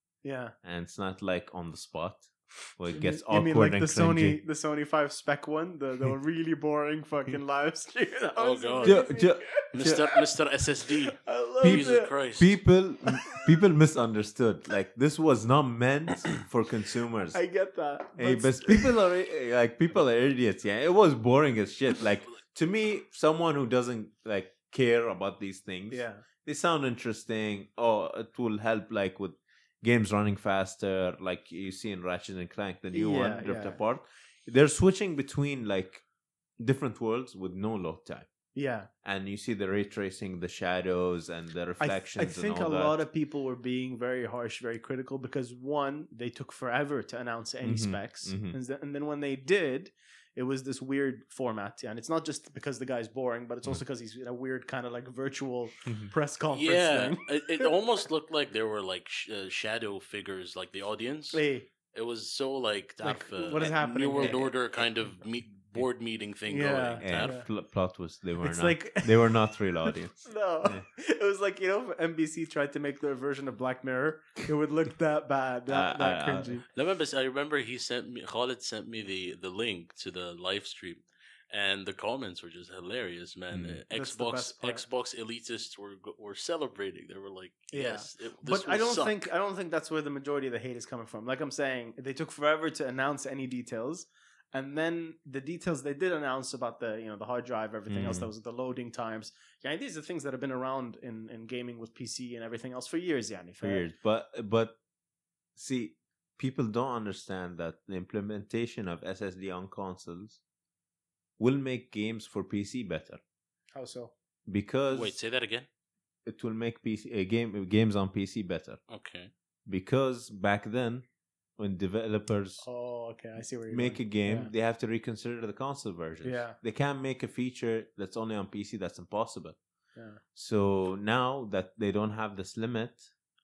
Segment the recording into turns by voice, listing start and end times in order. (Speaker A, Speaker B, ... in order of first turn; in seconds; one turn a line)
Speaker A: 0.2-0.5
Speaker B: 0.6-4.4
Speaker A: 2.9-10.2
Speaker C: 8.3-9.1
Speaker B: 8.8-10.0
Speaker C: 9.7-12.6
Speaker A: 11.2-12.1
Speaker B: 11.6-17.4
Speaker A: 17.3-18.9
Speaker B: 18.2-36.0
Speaker A: 25.9-26.2
Speaker A: 32.9-33.8
Speaker B: 36.6-38.3
Speaker A: 38.5-38.9
Speaker B: 39.0-43.0
Speaker A: 41.8-57.7
Speaker B: 47.6-48.5
Speaker B: 55.9-56.1
Speaker C: 56.5-67.3
Speaker A: 61.3-61.7
Speaker A: 63.0-64.5
Speaker A: 66.5-67.5
Speaker B: 67.0-70.8
Speaker A: 68.4-76.6
Speaker B: 75.7-76.6
Speaker C: 76.7-89.3
Speaker B: 83.5-83.8
Speaker A: 83.9-84.8
Speaker A: 87.7-103.8
Speaker B: 97.9-98.3
Speaker B: 103.6-104.8
Speaker B: 105.5-110.4
Speaker B: 111.4-113.2
Speaker A: 113.7-114.1
Speaker B: 114.5-115.2
Speaker C: 114.9-115.7
Speaker B: 116.2-118.8
Speaker C: 118.9-119.3
Speaker B: 119.7-121.0
Speaker B: 121.6-122.6
Speaker A: 122.6-124.5
Speaker B: 123.7-129.6
Speaker A: 126.2-126.6
Speaker A: 129.9-130.2
Speaker B: 130.3-133.0